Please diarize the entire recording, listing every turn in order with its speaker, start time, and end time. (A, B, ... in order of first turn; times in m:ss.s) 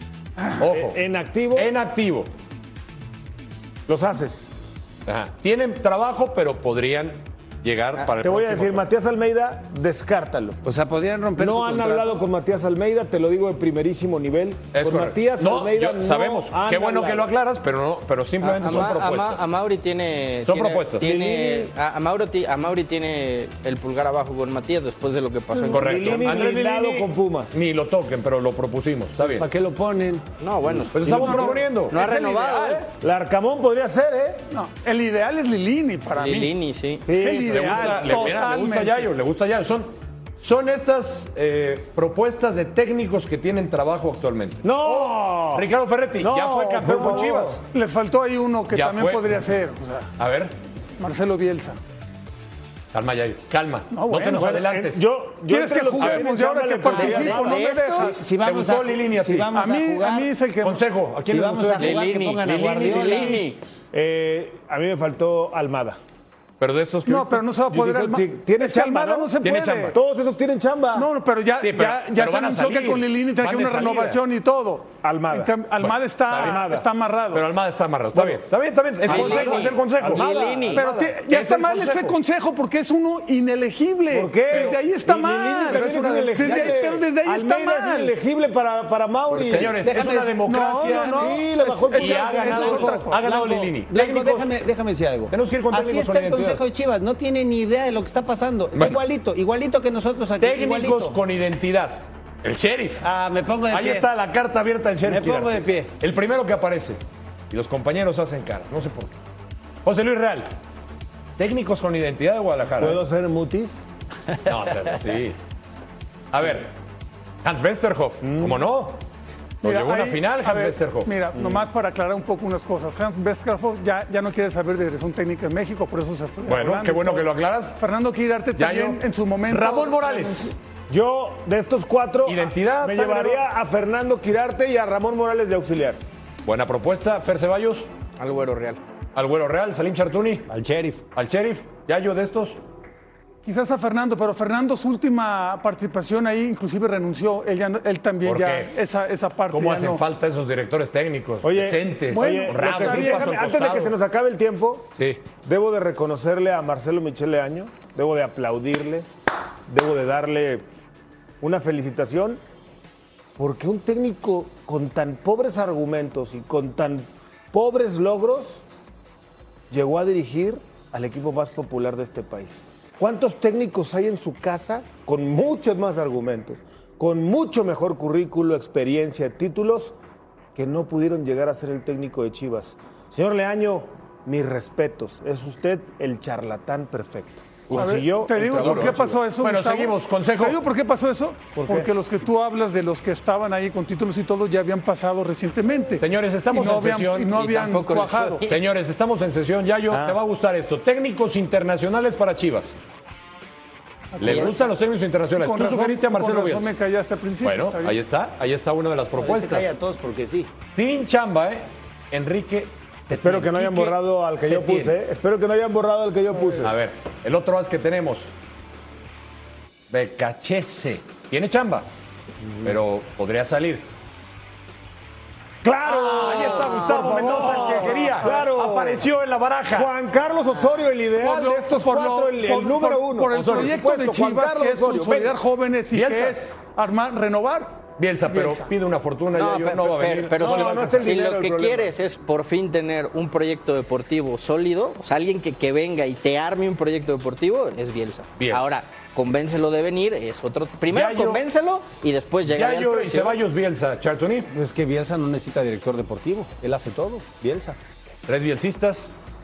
0:00.6-0:01.0 A
0:00.6-0:01.7 B
0:01.5-0:02.3 A
0:03.9-0:04.6 B
0:05.0-0:08.8 A
0:08.0-0:10.6 B
0:10.6-0:12.2 C
0:11.4-0:17.3 B
0:14.7-0:19.4 A
0:18.4-0:26.5 D
0:20.4-0:21.1 A
0:21.0-0:21.7 B
0:25.6-0:27.6 B
0:25.7-0:29.5 A
0:29.2-0:31.5 C
0:30.4-0:31.1 D
0:30.9-0:32.2 A
0:31.0-0:31.6 B
0:31.9-0:32.9 D
0:32.0-0:32.8 E
0:33.0-0:34.4 B
0:34.5-0:36.5 E
0:36.1-0:37.1 D
0:37.1-0:39.1 E
0:37.1-0:38.2 B
0:37.3-0:47.6 A
0:44.6-0:45.7 B
0:46.2-0:47.6 B
0:47.0-0:50.1 E
0:48.7-0:49.4 A
0:50.2-0:50.5 A
0:51.0-0:51.8 E
0:52.9-0:55.0 A
0:53.9-0:54.6 E
0:54.4-0:57.9 B
0:55.4-0:58.2 E
0:56.0-0:56.3 A
0:56.9-0:58.1 D
0:58.0-1:00.3 C
0:58.4-0:59.5 A
0:59.5-1:00.8 E
1:00.6-1:03.3 A
1:01.2-1:03.5 C
1:01.8-1:03.6 D
1:03.9-1:06.0 B
1:06.6-1:07.5 A
1:07.0-1:10.0 E
1:07.7-1:09.4 B
1:09.4-1:10.0 A
1:09.9-1:11.1 B
1:10.9-1:17.4 E
1:11.6-1:14.2 A
1:15.0-1:15.6 B
1:15.8-1:16.7 A
1:16.3-1:16.8 B
1:17.3-1:22.2 A
1:18.1-1:18.4 B
1:19.0-1:21.1 B
1:19.0-1:20.8 D
1:20.7-1:28.1 E
1:24.1-1:29.8 B
1:24.5-1:24.8 A
1:25.7-1:26.7 A
1:29.3-1:29.7 D
1:29.4-1:34.5 A
1:29.8-1:31.2 C
1:30.4-1:33.2 E
1:31.1-1:32.9 B
1:32.4-1:41.2 C
1:35.3-1:36.6 A
1:38.7-1:39.0 A
1:40.4-1:43.0 A
1:43.0-1:44.1 C
1:43.7-1:47.0 A
1:45.0-1:45.9 C
1:47.5-1:49.1 A
1:49.8-1:50.5 A
1:51.4-1:53.0 A
1:52.8-1:53.8 B
1:54.4-1:55.4 A
1:56.3-1:56.7 A
1:57.4-1:59.0 A
1:58.2-1:58.7 B
1:59.6-2:01.1 A
1:59.6-2:10.5 E
2:01.4-2:01.6 B
2:06.4-2:07.8 A
2:08.6-2:10.5 A
2:10.9-2:16.0 B
2:12.2-2:13.4 A
2:16.4-2:17.9 A
2:18.2-2:18.8 D
2:19.1-2:20.5 A
2:20.5-2:21.0 C
2:21.1-2:22.6 A
2:23.4-2:30.0 E
2:28.2-2:28.7 A
2:29.5-2:33.9 A
2:31.4-2:34.9 B
2:32.1-2:33.5 E
2:35.4-2:39.1 B
2:39.7-2:40.6 B
2:41.4-2:42.4 B
2:43.4-2:48.6 B
2:49.7-3:00.0 B
3:00.5-3:09.2 B
3:07.7-3:10.6 A
3:07.7-3:18.4 E
3:11.6-3:11.8 B
3:16.0-3:17.4 A
3:17.3-3:18.6 D
3:18.4-3:22.8 A
3:24.1-3:24.7 E
3:24.2-3:26.7 A
3:25.4-3:28.0 E
3:27.4-3:29.7 A
3:29.2-3:30.5 C
3:30.7-3:35.0 A
3:33.1-3:36.7 B
3:36.6-3:38.3 A
3:39.9-3:41.9 A
3:42.4-3:42.7 B
3:42.6-3:43.8 A
3:45.6-3:49.0 B
3:45.8-3:49.9 A
3:49.7-3:55.4 B
3:51.1-3:58.7 E
3:53.3-3:53.8 A
3:55.9-3:56.4 A
3:58.0-4:01.5 A
3:59.3-4:13.4 D
4:00.4-4:01.9 B
4:08.4-4:08.7 A
4:10.9-4:11.4 A
4:12.5-4:14.5 A
4:14.5-4:17.8 C
4:18.3-4:19.1 A